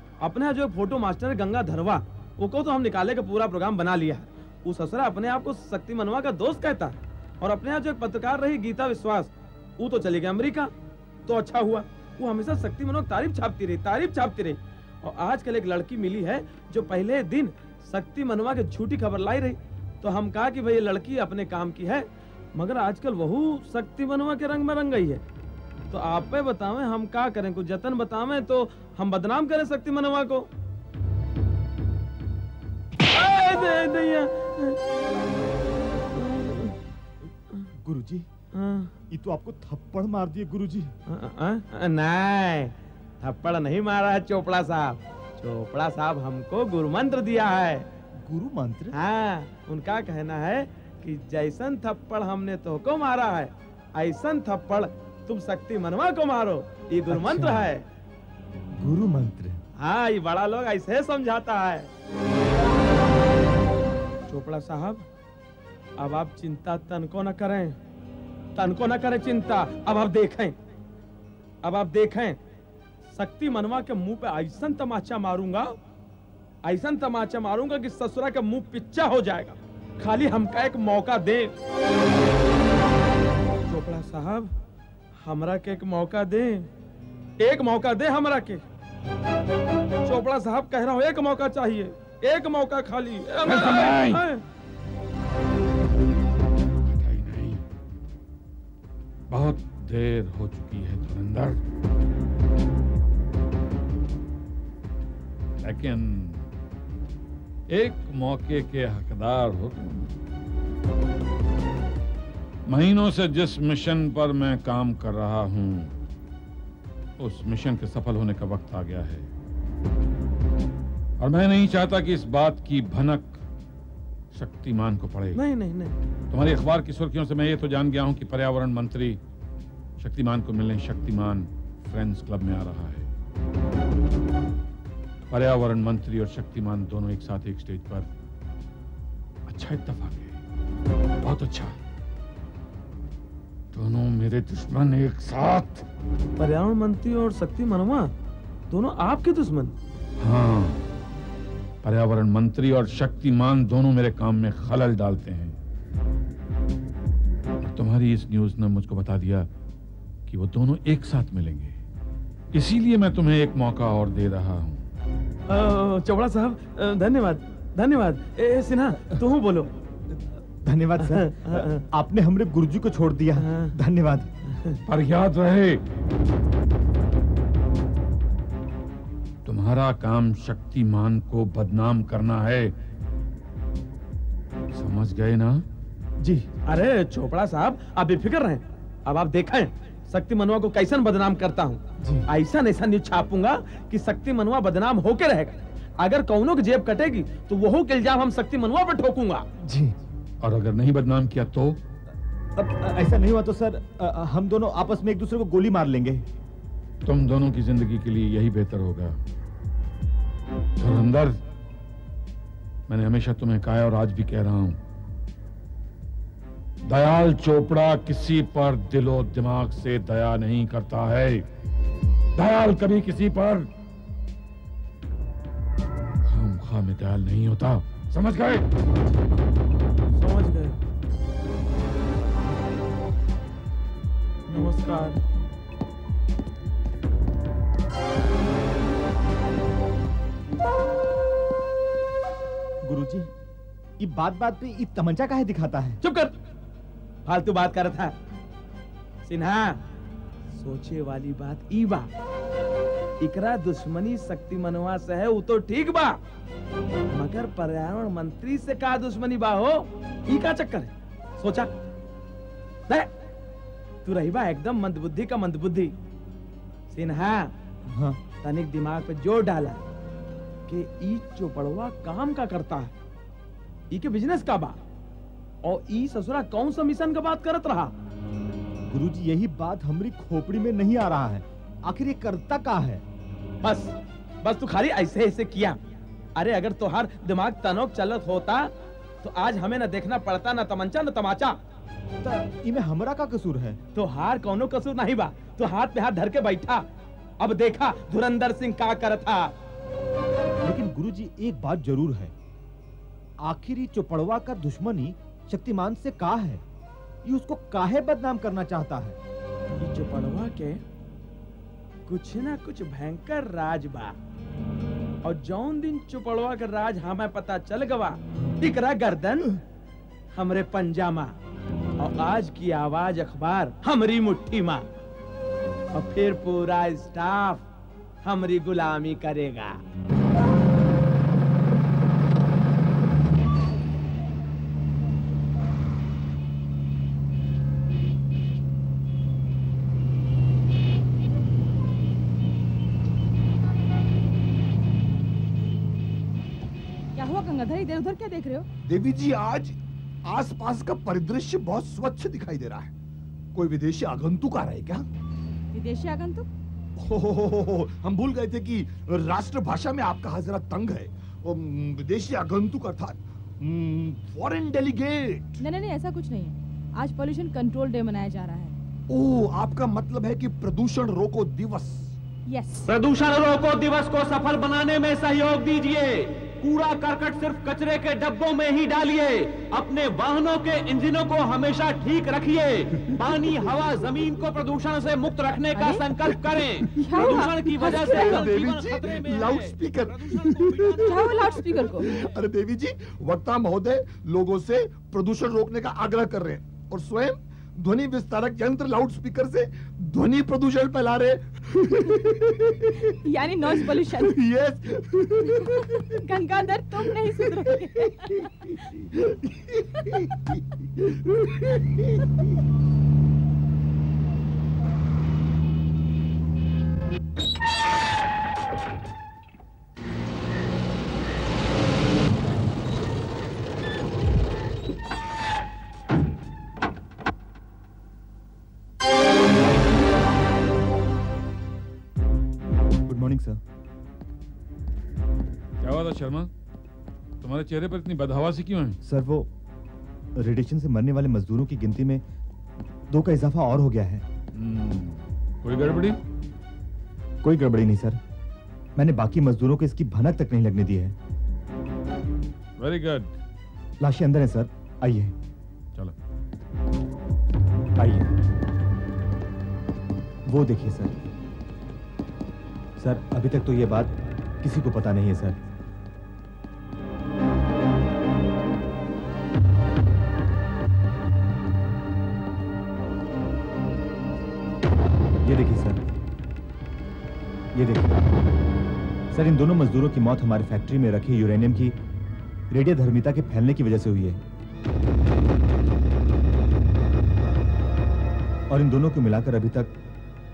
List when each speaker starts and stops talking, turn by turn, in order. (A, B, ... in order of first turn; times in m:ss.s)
0:00.2-0:10.7 A
0:11.2-0:25.2 A
0:25.9-0:30.4 A
0:33.1-0:34.8 A
0:36.1-0:36.8 A
0:37.7-0:38.3 B
0:38.5-0:38.9 A
0:39.1-0:40.9 B
0:41.1-0:47.8 A
0:48.2-0:49.0 B
0:48.9-0:57.8 A
0:57.1-0:57.7 B
0:58.8-0:59.6 B
0:59.8-1:01.9 A
1:04.3-1:05.0 A
1:06.0-1:07.8 A
1:08.5-1:10.6 A
1:11.6-1:12.4 A
1:13.1-1:15.7 A
1:16.6-1:21.6 A
1:23.7-1:24.5 A
1:25.2-1:26.7 A
1:27.4-1:28.6 A
1:30.0-1:34.4 A
1:33.4-1:34.2 C
1:36.8-1:37.6 C
1:39.3-1:41.6 C
1:45.6-1:46.5 C
1:47.7-1:50.1 C
1:52.7-1:56.0 C
1:57.2-1:59.3 C
2:01.2-2:03.4 C
2:04.3-2:05.4 C
2:05.3-2:06.0 A
2:06.3-2:09.2 C
2:10.0-2:13.1 C
2:15.3-2:18.1 C
2:19.5-2:20.4 C
2:21.2-2:21.7 C
2:23.7-2:25.8 C
2:26.4-2:28.1 A
2:28.7-2:29.7 A
2:30.2-2:30.8 C
2:31.8-2:35.5 C
2:37.6-2:39.5 C
2:40.3-2:41.7 C
2:42.5-2:44.8 C
2:45.5-2:49.7 A
2:50.6-2:54.3 B
2:51.1-2:51.8 A
2:53.4-2:53.7 A
2:54.9-2:55.8 C
2:59.4-3:02.7 C
3:04.7-3:05.6 C
3:06.2-3:06.5 B
3:06.7-3:19.4 A
3:12.0-3:12.3 B
3:19.6-3:20.0 B
3:20.4-3:21.8 C
3:22.6-3:26.2 B
3:27.0-3:29.2 C
3:30.8-3:31.4 C
3:32.9-3:34.8 C
3:36.8-3:41.4 C
3:42.4-3:43.7 C
3:46.2-3:48.6 C
3:50.1-3:50.8 A
3:54.5-3:55.2 A
4:02.8-4:03.3 B
4:04.0-4:06.0 B
4:06.0-4:06.3 A
4:07.2-4:08.1 A
4:09.2-4:09.8 A
4:10.5-4:12.1 A
4:13.2-4:16.1 A
4:17.1-4:21.7 A
4:24.0-4:25.9 A
4:26.9-4:27.5 A
4:27.9-4:28.2 B
4:28.4-4:29.8 A
4:30.7-4:32.9 A
4:33.9-4:34.8 A
4:35.6-4:37.9 A
4:38.9-4:43.0 B
4:43.6-4:45.8 A
4:46.4-4:48.7 A
4:49.2-4:51.6 A
4:52.2-4:53.8 B
4:53.9-4:56.8 A
4:57.4-4:59.5 A
5:00.6-5:02.3 B
5:03.4-5:06.6 B
5:07.2-5:09.2 B
5:09.8-5:10.8 A
5:12.0-5:14.1 A
5:15.2-5:19.6 A
5:20.3-5:21.4 A
5:22.0-5:24.8 A
5:25.9-5:27.6 A
5:28.2-5:29.8 A
5:47.1-5:48.6 D
5:48.8-5:52.9 E
5:53.5-5:55.0 E
5:55.7-5:56.5 D
5:57.0-6:05.6 E
6:05.6-6:08.8 D
6:09.1-6:12.2 E
6:12.5-6:12.9 D
6:12.8-6:32.2 F
6:25.7-6:26.0 D
6:26.9-6:28.5 D
6:27.0-6:46.2 E
6:31.0-6:32.1 D
6:43.2-6:44.4 D
6:45.6-6:48.5 D
6:47.4-6:52.5 E
7:13.0-7:13.6 B
7:15.8-7:16.5 C
7:17.4-7:19.0 C
7:19.0-7:19.5 B
7:20.4-7:22.2 B
7:23.1-7:24.2 B
7:24.5-7:26.2 C
7:27.4-7:28.2 B
7:29.0-7:31.2 B
7:32.8-7:33.3 C
7:34.0-7:35.3 B
7:38.0-7:38.3 B
7:40.5-7:41.1 B
7:43.0-7:45.6 B
7:55.4-7:56.0 B
7:57.7-7:58.3 B
7:59.3-8:02.0 B
8:02.7-8:04.4 B
8:08.7-8:09.9 B